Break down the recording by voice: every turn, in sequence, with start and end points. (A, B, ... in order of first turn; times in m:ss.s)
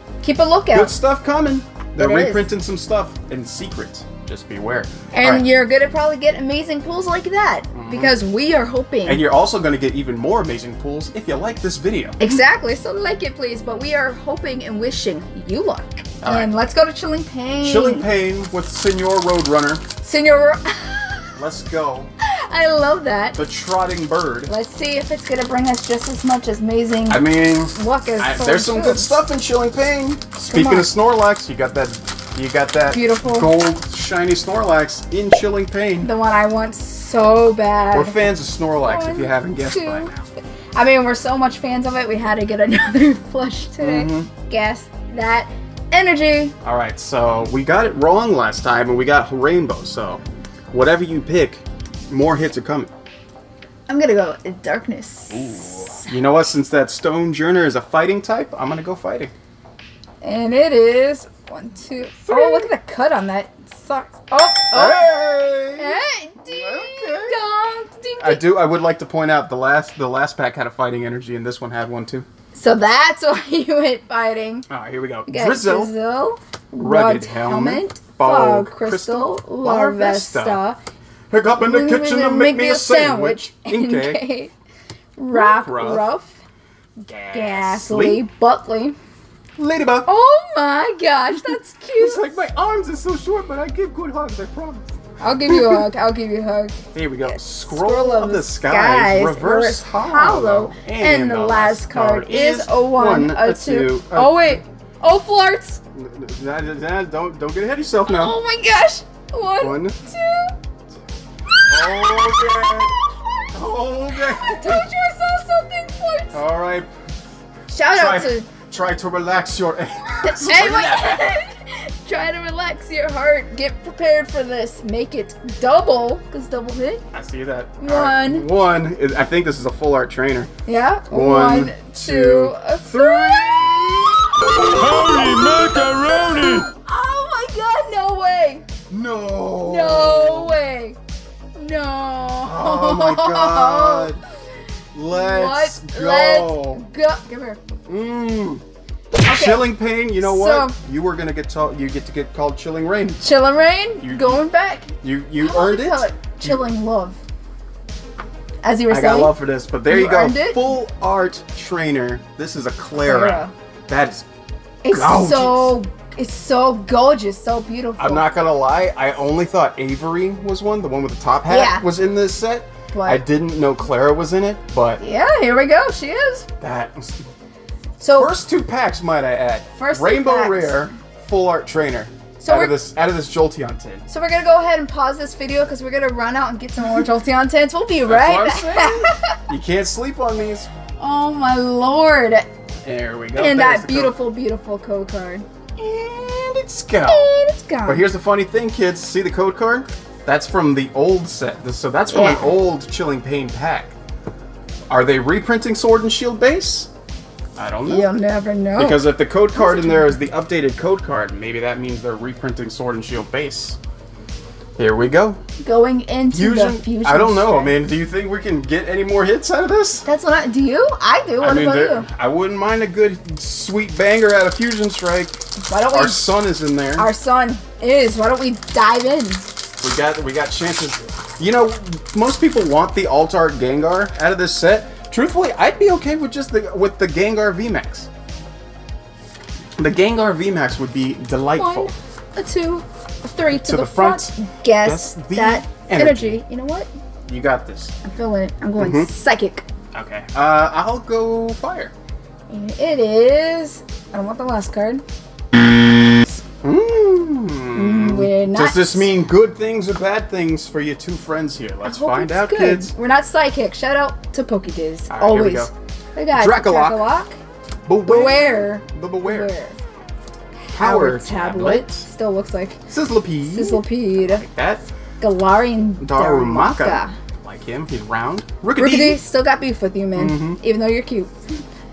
0:00.2-0:01.0 A
0:00.7-0:05.4 B
0:02.0-0:02.5 A
0:05.1-0:09.2 A
0:07.7-0:08.2 B
0:09.1-0:12.2 B
0:12.2-0:18.1 A
0:16.2-0:16.5 B
0:17.6-0:19.8 B
0:20.0-0:21.4 A
0:21.4-0:22.1 B
0:22.2-0:23.4 A
0:23.4-0:24.5 B
0:24.5-0:29.2 A
0:27.1-0:36.1 B
0:30.5-0:30.9 A
0:32.9-0:33.5 A
0:36.0-0:38.2 A
0:37.9-0:40.2 B
0:38.8-0:40.1 A
0:40.8-0:46.6 A
0:43.8-0:44.3 B
0:46.6-0:52.9 B
0:53.9-0:56.2 A
0:55.4-0:59.3 B
1:00.2-1:08.4 A
1:02.2-1:02.7 B
1:04.7-1:07.4 B
1:08.2-1:12.3 B
1:12.5-1:14.7 A
1:14.7-1:15.9 B
1:15.3-1:20.8 A
1:16.8-1:20.6 B
1:21.3-1:24.2 B
1:21.6-1:24.5 A
1:25.2-1:26.4 A
1:25.3-1:26.0 B
1:27.0-1:28.2 B
1:27.3-1:29.0 A
1:29.6-1:30.1 B
1:30.1-1:32.2 A
1:31.5-1:35.9 B
1:35.2-1:45.8 A
1:36.9-1:44.6 B
1:45.9-1:48.4 B
1:48.1-1:50.6 A
1:49.6-1:50.0 B
1:51.5-1:53.5 A
1:51.7-1:52.9 B
1:53.5-1:54.9 B
1:54.1-1:56.4 A
1:56.3-1:56.9 B
1:57.7-1:58.5 A
1:57.9-2:01.4 B
2:00.2-2:07.0 A
2:07.1-2:10.5 B
2:07.8-2:08.5 A
2:10.7-2:18.7 A
2:11.1-2:16.7 B
2:18.9-2:20.6 B
2:19.6-2:21.0 A
2:21.6-2:24.1 A
2:22.4-2:24.2 B
2:24.9-2:26.9 B
2:25.1-2:27.6 A
2:27.9-2:28.6 B
2:29.2-2:30.8 A
2:29.2-2:33.2 B
2:33.2-2:37.2 A
2:34.0-2:34.4 B
2:35.0-2:36.6 B
2:38.6-2:39.3 A
2:38.9-2:44.3 B
2:39.9-2:40.7 A
2:43.0-2:43.5 A
2:44.8-2:48.3 A
2:44.9-2:45.8 B
2:48.0-2:55.0 B
2:51.5-2:51.8 A
2:52.9-2:53.2 A
2:55.0-2:56.5 A
2:56.6-2:57.3 B
2:58.0-2:58.3 A
2:58.2-3:04.1 B
2:59.8-3:00.9 A
3:02.4-3:02.7 A
3:04.1-3:09.4 A
3:06.8-3:07.1 B
3:08.1-3:10.7 B
3:11.0-3:12.5 A
3:12.8-3:14.2 B
3:13.4-3:15.5 A
3:15.8-3:17.3 B
3:17.1-3:18.0 A
3:17.9-3:23.9 B
3:22.1-3:22.6 A
3:24.9-3:26.9 B
3:27.6-3:28.1 B
3:27.9-3:30.1 A
3:28.8-3:33.8 B
3:34.8-3:35.4 B
3:35.6-3:37.8 A
3:36.3-3:40.0 B
3:40.1-3:42.1 A
3:41.4-3:47.1 B
3:45.6-3:46.3 A
3:47.0-3:49.5 A
3:49.8-3:58.1 B
3:59.8-4:01.9 B
4:01.6-4:06.9 A
4:03.5-4:06.4 B
4:07.3-4:07.9 B
4:08.0-4:09.6 A
4:08.8-4:09.1 B
4:09.9-4:11.9 B
4:12.5-4:15.0 A
4:16.6-4:22.9 B
4:17.7-4:19.1 A
4:21.8-4:27.4 A
4:25.1-4:25.7 B
4:26.3-4:27.1 B
4:27.9-4:29.5 B
4:28.0-4:29.8 A
4:30.6-4:32.8 A
4:30.7-4:32.1 B
4:32.9-4:34.8 B
4:33.5-4:34.4 A
4:35.2-4:37.1 A
4:36.0-4:39.2 B
4:38.8-4:41.3 A
4:40.2-4:40.6 B